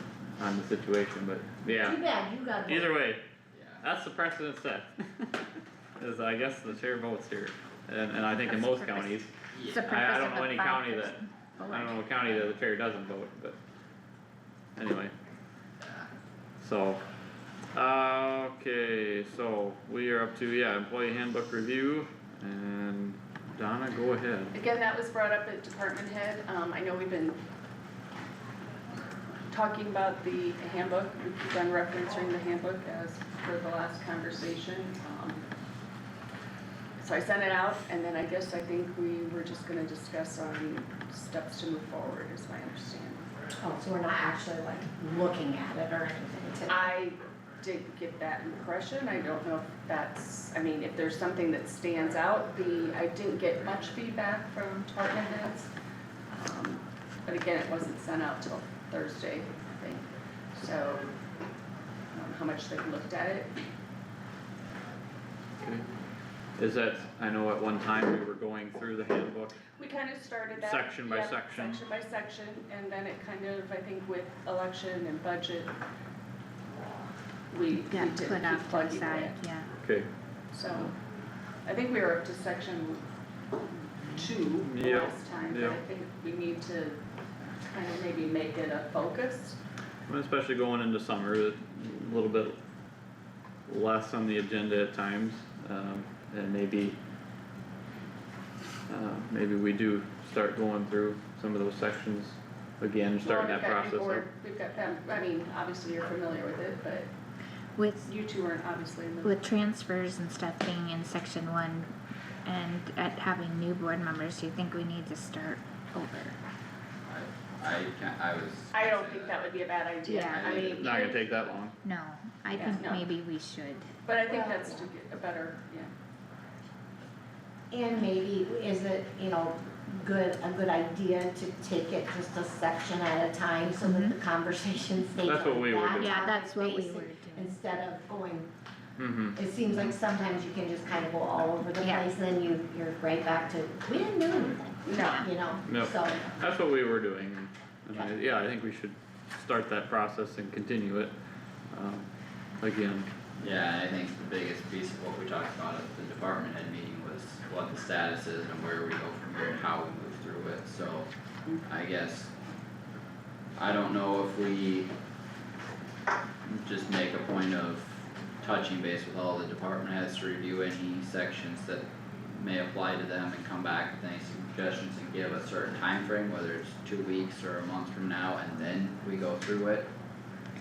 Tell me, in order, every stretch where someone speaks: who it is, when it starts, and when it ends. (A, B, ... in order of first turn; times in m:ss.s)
0:00.4-0:02.0 A
0:01.7-0:03.0 B
0:02.6-0:03.2 A
0:03.5-0:03.8 C
0:03.8-0:05.2 A
0:06.0-0:09.3 A
0:08.4-0:12.4 D
0:09.5-0:09.9 C
0:09.8-0:13.6 A
0:14.8-0:15.1 A
0:15.8-0:16.1 C
0:16.6-0:17.0 A
0:17.7-0:24.5 A
0:24.5-0:27.4 E
0:29.5-0:35.4 E
0:37.0-0:43.3 E
0:43.6-0:46.9 B
0:46.7-0:55.7 E
0:56.3-1:01.1 E
1:02.1-1:03.5 E
1:06.6-1:09.6 A
1:09.8-1:15.7 E
1:10.6-1:11.8 A
1:17.5-1:19.4 E
1:17.9-1:19.7 D
1:19.8-1:20.1 A
1:20.5-1:20.9 E
1:21.6-1:23.0 E
1:24.0-1:27.0 E
1:24.1-1:25.8 A
1:27.6-1:29.6 E
1:30.1-1:32.6 A
1:33.7-1:37.0 A
1:38.9-1:44.2 A
1:43.2-1:47.1 E
1:47.8-1:48.1 D
1:48.0-1:49.4 E
1:49.2-1:51.9 D
1:52.4-1:56.3 D
1:57.1-1:59.5 C
1:58.7-2:01.4 E
2:00.0-2:01.2 D
2:00.3-2:00.9 C
2:00.6-2:01.7 A
2:01.8-2:03.9 D
2:02.5-2:03.0 E
2:04.0-2:05.9 E
2:04.3-2:04.9 B
2:07.7-2:18.5 B
2:13.8-2:14.2 D
2:15.2-2:16.3 A
2:16.0-2:17.6 D
2:19.0-2:19.4 A
2:19.3-2:26.2 B
2:21.8-2:22.0 D
2:24.8-2:25.3 E
2:25.6-2:31.1 A
2:31.7-2:33.1 A
2:33.4-2:41.1 C
2:41.6-2:42.3 C
2:43.6-2:44.9 C
2:46.4-2:59.9 C